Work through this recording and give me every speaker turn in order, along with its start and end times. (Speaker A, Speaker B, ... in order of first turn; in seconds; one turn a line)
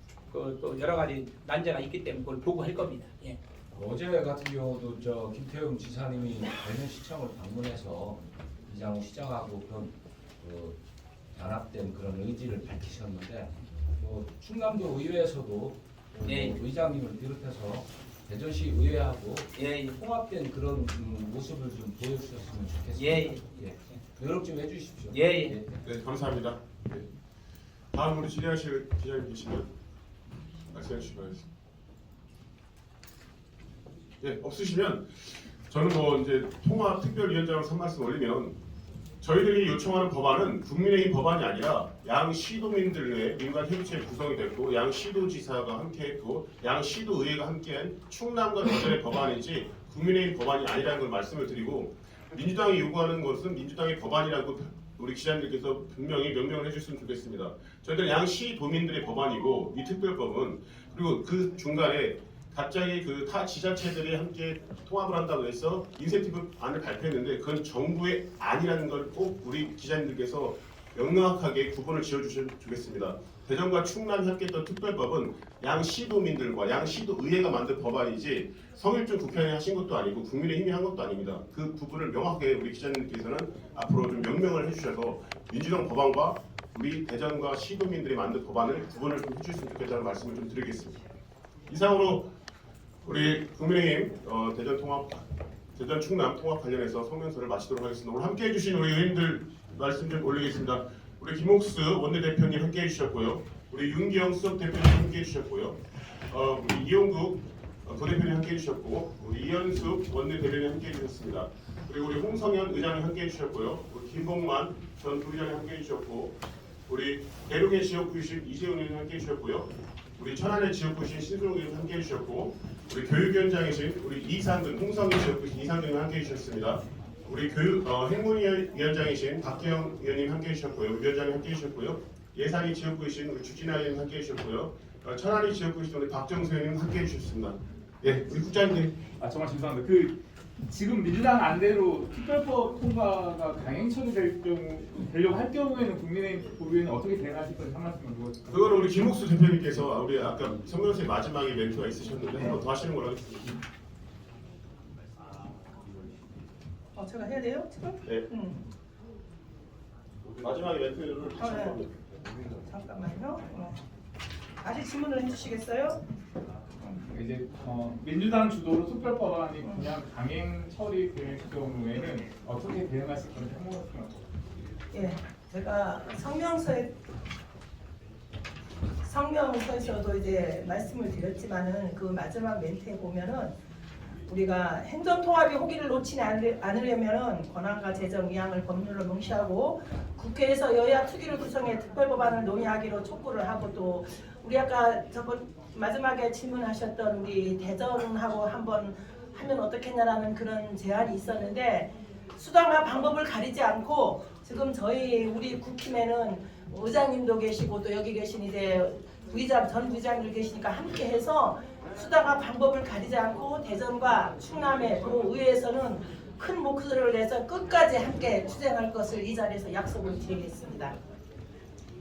Speaker A: 0.3-3.4
Speaker B: 3.7-10.8
Speaker B: 11.3-25.8
Speaker A: 16.2-16.6
Speaker A: 19.5-20.0
Speaker A: 22.9-24.0
Speaker A: 25.1-25.6
Speaker C: 25.8-27.1
Speaker C: 27.9-29.7
Speaker C: 30.7-31.4
Speaker C: 34.2-38.5
Speaker C: 39.2-91.0
Speaker C: 91.7-92.3
Speaker C: 93.0-138.9
Speaker D: 139.2-149.0
Speaker C: 148.5-153.6
Speaker E: 156.9-158.7
Speaker C: 160.4-162.2
Speaker E: 161.4-161.8
Speaker E: 162.4-163.8
Speaker E: 164.6-166.0
Speaker D: 167.0-174.3
Speaker E: 169.6-169.9
Speaker E: 174.9-176.9
Speaker E: 179.0-183.5
Speaker E: 184.3-220.9